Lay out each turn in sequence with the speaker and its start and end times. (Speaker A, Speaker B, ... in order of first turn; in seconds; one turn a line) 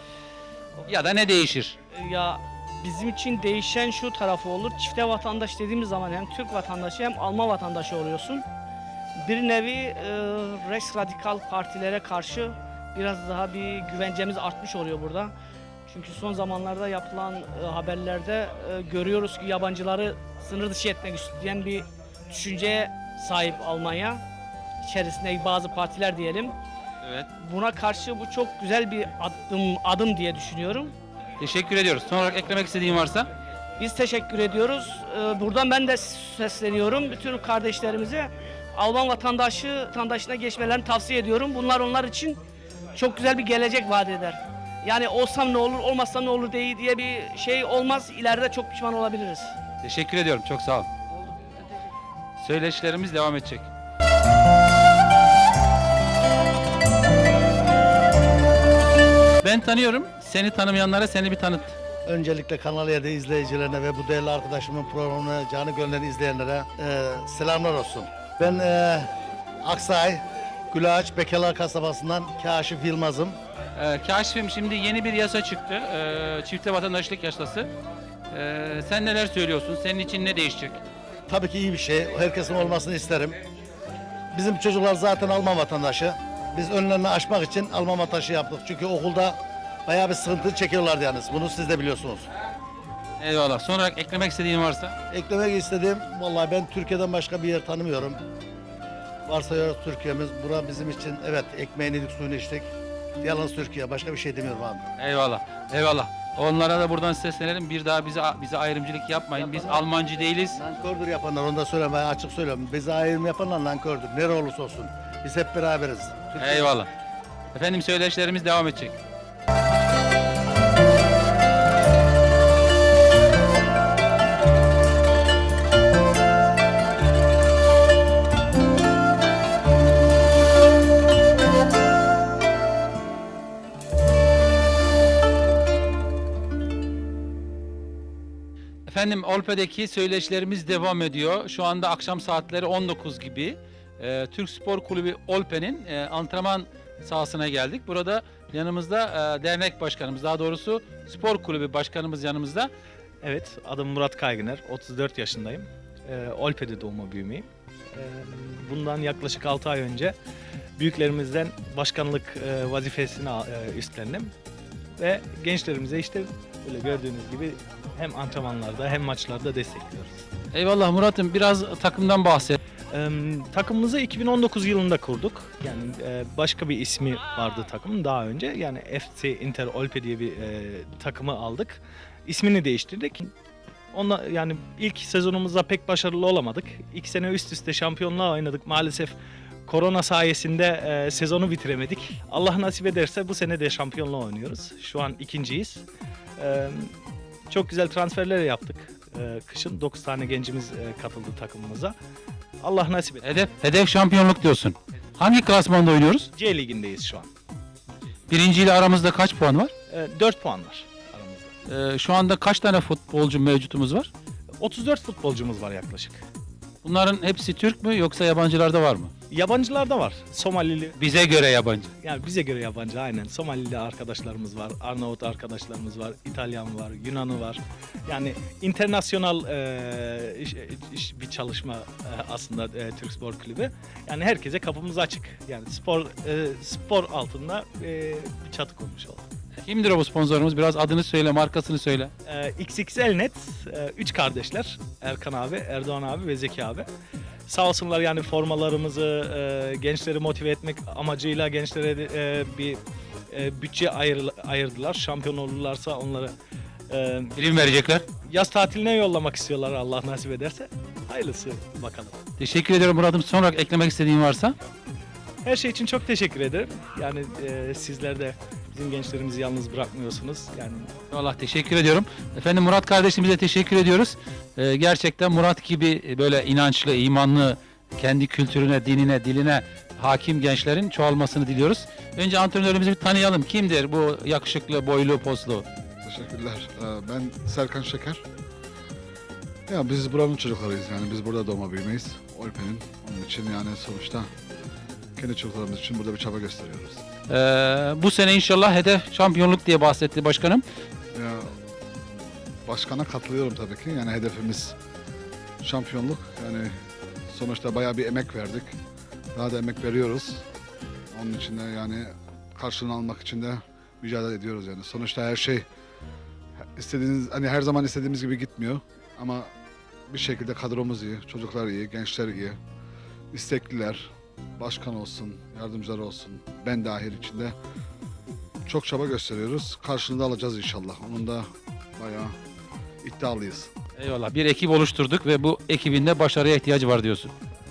Speaker A: 0.9-1.8
Speaker B: 1.9-8.5
Speaker B: 9.2-15.3
Speaker B: 15.9-24.2
Speaker B: 24.8-26.6
Speaker A: 27.0-27.3
Speaker B: 27.4-30.9
Speaker A: 31.4-33.3
Speaker B: 33.8-42.4
Speaker B: 42.9-49.5
Speaker A: 49.8-50.9
Speaker A: 52.4-53.7
Speaker A: 59.4-61.8
Speaker C: 62.0-69.1
Speaker C: 69.6-73.3
Speaker A: 73.7-77.7
Speaker A: 78.3-80.8
Speaker C: 81.3-83.4
Speaker C: 84.3-92.3
Speaker A: 93.2-94.9
Speaker C: 95.1-98.2
Speaker C: 99.2-102.7
Speaker C: 103.2-104.8
Speaker A: 105.0-110.6
Speaker C: 109.3-109.8
Speaker C: 110.5-116.7
Speaker A: 116.4-116.9
Speaker A: 117.5-118.9
Speaker A: 138.9-152.7
Speaker D: 153.2-160.2
Speaker D: 160.8-164.3
Speaker D: 165.0-170.2
Speaker A: 170.5-172.6
Speaker D: 172.9-183.3
Speaker D: 183.9-189.1
Speaker D: 189.7-195.8
Speaker D: 196.4-196.9
Speaker D: 197.5-201.9
Speaker D: 202.6-203.3
Speaker A: 203.2-206.3
Speaker D: 206.4-207.3
Speaker A: 208.3-209.7
Speaker D: 209.9-211.5
Speaker A: 211.7-214.1
Speaker D: 214.6-216.2
Speaker A: 216.8-219.1
Speaker D: 219.3-220.9
Speaker A: 220.9-221.9
Speaker D: 222.0-239.2
Speaker A: 239.6-242.1
Speaker D: 242.2-246.9
Speaker D: 247.5-252.8
Speaker D: 253.3-256.3
Speaker D: 256.9-257.3
Speaker A: 257.4-258.0
Speaker D: 258.2-262.2
Speaker A: 262.4-264.6
Speaker D: 265.4-270.9
Speaker A: 271.1-285.6
Speaker E: 286.0-288.2
Speaker E: 289.7-294.3
Speaker E: 295.1-297.0
Speaker A: 297.3-300.6
Speaker E: 301.1-301.5
Speaker E: 302.7-304.8
Speaker E: 305.6-306.7
Speaker E: 307.3-308.7
Speaker E: 309.3-310.4
Speaker E: 311.1-315.6
Speaker E: 316.8-319.5
Speaker E: 320.1-322.6
Speaker E: 323.3-324.1
Speaker E: 324.6-327.5
Speaker E: 328.6-332.3
Speaker E: 333.0-333.7
Speaker A: 334.0-337.3